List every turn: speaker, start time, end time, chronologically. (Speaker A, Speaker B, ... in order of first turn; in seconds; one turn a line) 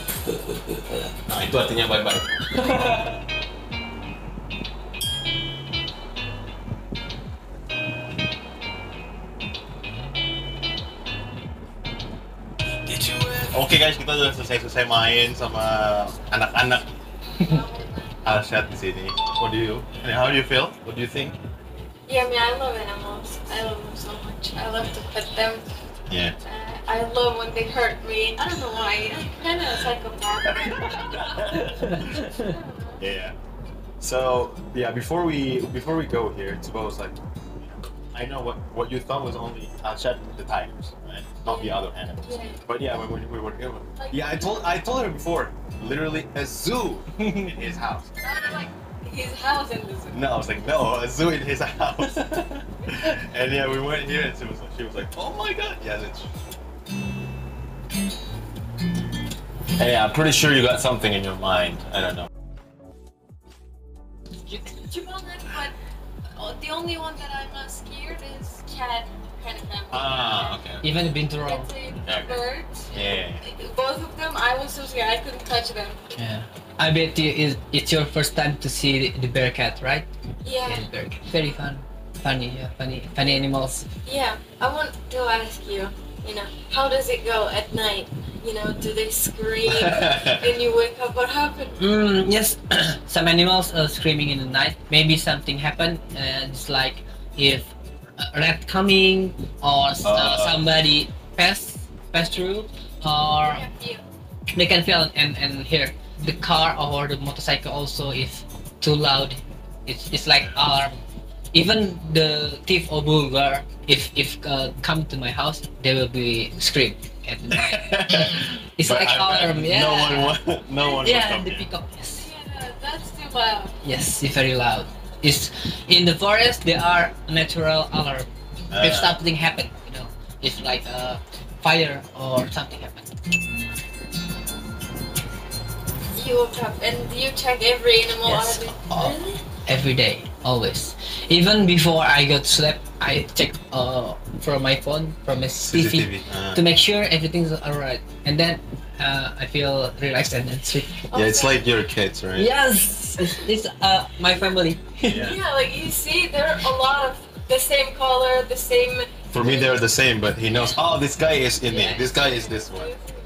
Speaker A: 1.2-2.3
Speaker B: 2.6-3.1
Speaker A: 13.4-16.9
Speaker C: 17.4-18.2
Speaker A: 18.2-21.4
Speaker C: 22.1-25.6
Speaker A: 26.1-26.4
Speaker C: 26.4-31.5
Speaker A: 30.4-32.3
Speaker B: 31.4-32.5
Speaker C: 32.1-33.0
Speaker A: 33.0-33.4
Speaker A: 34.0-48.1
Speaker C: 41.4-42.6
Speaker C: 44.0-44.6
Speaker B: 47.2-47.5
Speaker C: 48.2-50.3
Speaker A: 50.1-56.4
Speaker B: 52.0-52.6
Speaker A: 59.8-62.3
Speaker C: 64.7-65.7
Speaker C: 66.3-70.6
Speaker A: 69.9-70.8
Speaker B: 70.8-71.7
Speaker C: 71.4-76.0
Speaker A: 72.0-73.4
Speaker B: 76.2-80.1
Speaker C: 80.4-80.9
Speaker B: 80.7-83.9
Speaker C: 84.0-91.8
Speaker A: 89.7-90.5
Speaker B: 91.8-103.7
Speaker A: 100.0-100.6
Speaker C: 103.4-104.0
Speaker B: 104.5-111.0
Speaker A: 110.4-110.7
Speaker B: 111.5-120.4
Speaker A: 117.5-121.7
Speaker B: 121.0-122.3
Speaker C: 122.2-123.7
Speaker B: 123.8-128.3
Speaker A: 128.7-129.2
Speaker B: 128.8-133.1
Speaker C: 136.1-139.4
Speaker B: 138.3-138.7
Speaker B: 139.7-151.0
Speaker A: 145.6-146.6
Speaker C: 151.1-151.6
Speaker A: 151.1-152.5
Speaker B: 152.3-155.2
Speaker A: 155.0-155.4
Speaker C: 155.1-159.7
Speaker A: 159.3-162.9
Speaker B: 161.7-162.1
Speaker C: 162.0-163.1